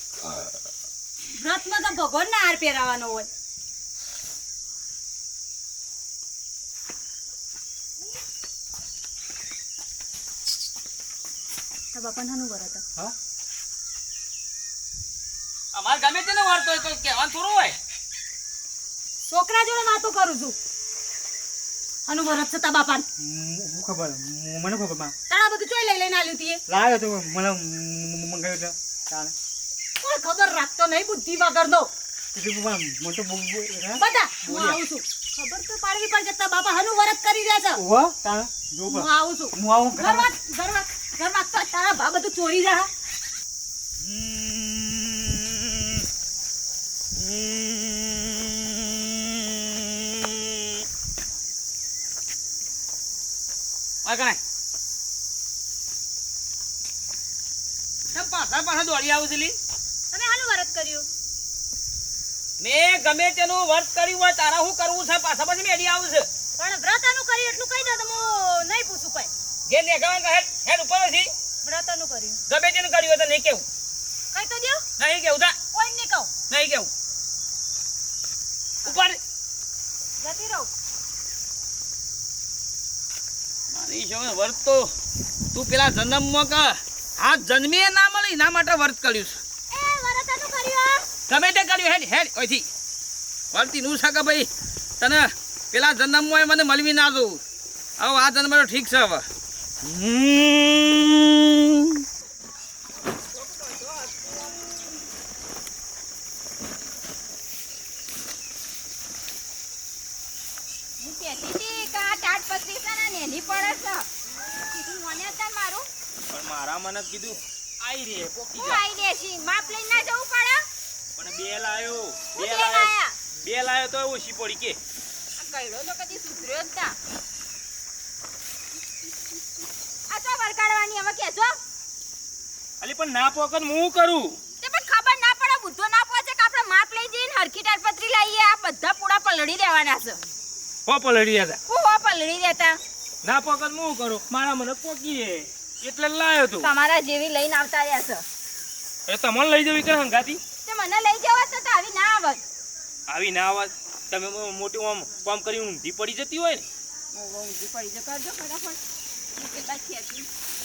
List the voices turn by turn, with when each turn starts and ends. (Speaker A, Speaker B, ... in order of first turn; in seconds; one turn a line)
Speaker A: 1.4-3.3
Speaker A: 11.9-12.8
Speaker B: 15.7-17.8
Speaker A: 19.3-20.6
Speaker A: 22.1-23.1
Speaker C: 23.2-25.1
Speaker A: 25.3-26.6
Speaker C: 26.7-29.3
Speaker A: 30.0-31.9
Speaker C: 32.3-34.0
Speaker A: 34.0-37.8
Speaker C: 37.8-40.3
Speaker A: 38.9-42.9
Speaker B: 44.1-45.1
Speaker B: 47.2-49.3
Speaker B: 54.0-54.4
Speaker B: 58.1-59.6
Speaker A: 60.1-61.1
Speaker B: 62.6-66.3
Speaker A: 66.6-69.3
Speaker B: 69.7-71.3
Speaker A: 71.6-72.4
Speaker B: 72.5-73.6
Speaker A: 74.3-74.8
Speaker B: 75.0-75.5
Speaker A: 75.7-76.3
Speaker B: 76.5-76.9
Speaker B: 78.9-79.2
Speaker A: 80.2-80.7
Speaker B: 83.7-84.9
Speaker B: 85.5-89.4
Speaker A: 89.7-91.0
Speaker B: 91.3-92.7
Speaker B: 93.5-94.5
Speaker B: 95.0-97.4
Speaker B: 98.0-99.2
Speaker B: 99.8-101.2
Speaker D: 111.0-114.1
Speaker D: 114.7-115.9
Speaker E: 116.3-118.8
Speaker D: 118.5-120.7
Speaker E: 121.2-122.9
Speaker D: 122.3-123.2
Speaker E: 123.4-124.8
Speaker D: 125.4-127.0
Speaker D: 130.1-131.6
Speaker E: 132.8-134.4
Speaker D: 134.6-140.2
Speaker E: 140.9-141.6
Speaker D: 141.7-142.8
Speaker E: 143.2-146.7
Speaker D: 146.6-148.2
Speaker E: 149.1-150.4
Speaker D: 150.7-152.4
Speaker E: 153.1-156.7
Speaker D: 157.1-158.8
Speaker D: 159.3-160.3